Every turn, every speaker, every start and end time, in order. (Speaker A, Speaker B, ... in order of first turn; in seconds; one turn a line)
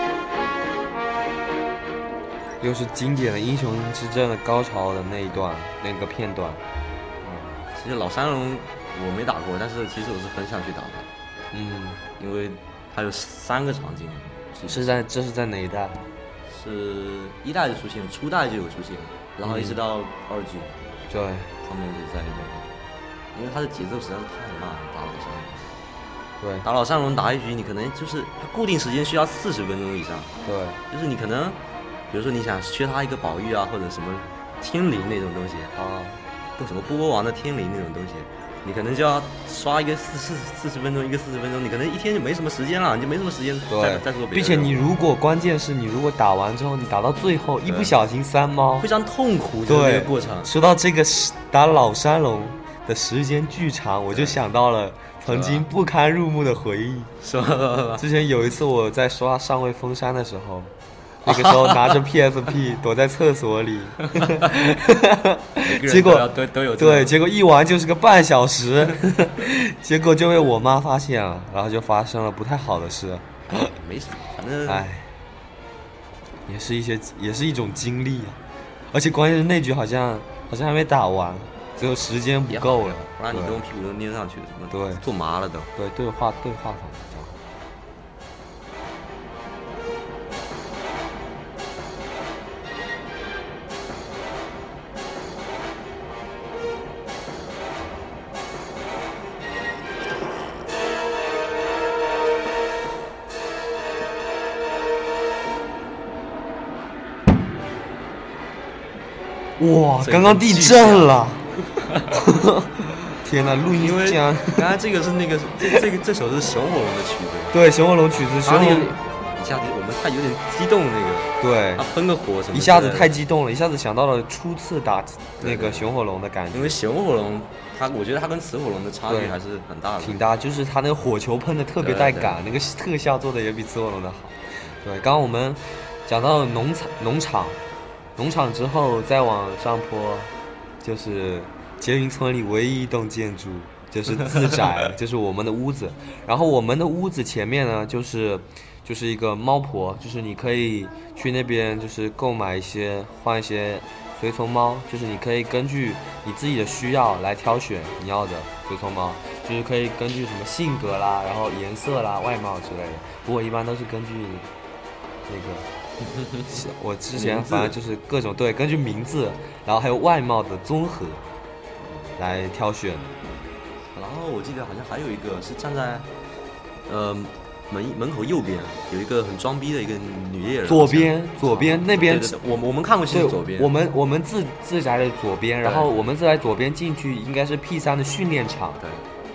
Speaker A: 2.6-6.6
Speaker B: 7.2-11.1
Speaker A: 11.5-12.0
Speaker B: 12.2-15.0
Speaker A: 14.7-16.0
Speaker B: 16.4-20.8
Speaker A: 19.4-19.8
Speaker A: 21.1-21.5
Speaker B: 21.6-22.7
Speaker B: 23.3-25.7
Speaker A: 26.4-26.6
Speaker B: 26.6-30.3
Speaker A: 30.4-30.8
Speaker B: 30.9-31.6
Speaker B: 32.1-35.7
Speaker A: 35.8-36.2
Speaker B: 36.6-44.9
Speaker A: 43.7-48.9
Speaker B: 47.6-47.9
Speaker B: 48.8-50.5
Speaker A: 49.7-57.1
Speaker B: 54.1-54.4
Speaker B: 55.2-55.7
Speaker B: 57.2-58.0
Speaker A: 58.0-60.7
Speaker A: 61.2-73.7
Speaker B: 61.2-62.0
Speaker B: 64.2-64.5
Speaker B: 65.6-67.2
Speaker B: 73.5-74.8
Speaker A: 74.7-75.1
Speaker A: 76.5-78.4
Speaker A: 78.9-83.6
Speaker B: 82.5-85.7
Speaker A: 84.7-85.0
Speaker A: 85.8-87.3
Speaker A: 109.6-111.5
Speaker B: 110.0-112.2
Speaker A: 112.1-114.7
Speaker B: 113.7-117.5
Speaker A: 117.5-119.0
Speaker B: 118.4-123.2
Speaker A: 121.4-121.8
Speaker A: 122.5-126.8
Speaker B: 125.4-125.9
Speaker B: 126.5-130.2
Speaker A: 129.1-129.3
Speaker A: 130.0-137.6
Speaker B: 131.8-132.4
Speaker A: 138.2-164.5
Speaker B: 144.2-144.5
Speaker A: 165.3-165.7
Speaker B: 166.0-166.6
Speaker A: 166.5-171.2
Speaker B: 167.1-167.8
Speaker B: 171.8-172.1
Speaker A: 172.2-173.1
Speaker B: 173.9-176.1
Speaker B: 176.9-183.7
Speaker A: 180.7-182.3
Speaker A: 183.1-188.8
Speaker B: 185.6-186.0
Speaker B: 188.8-189.1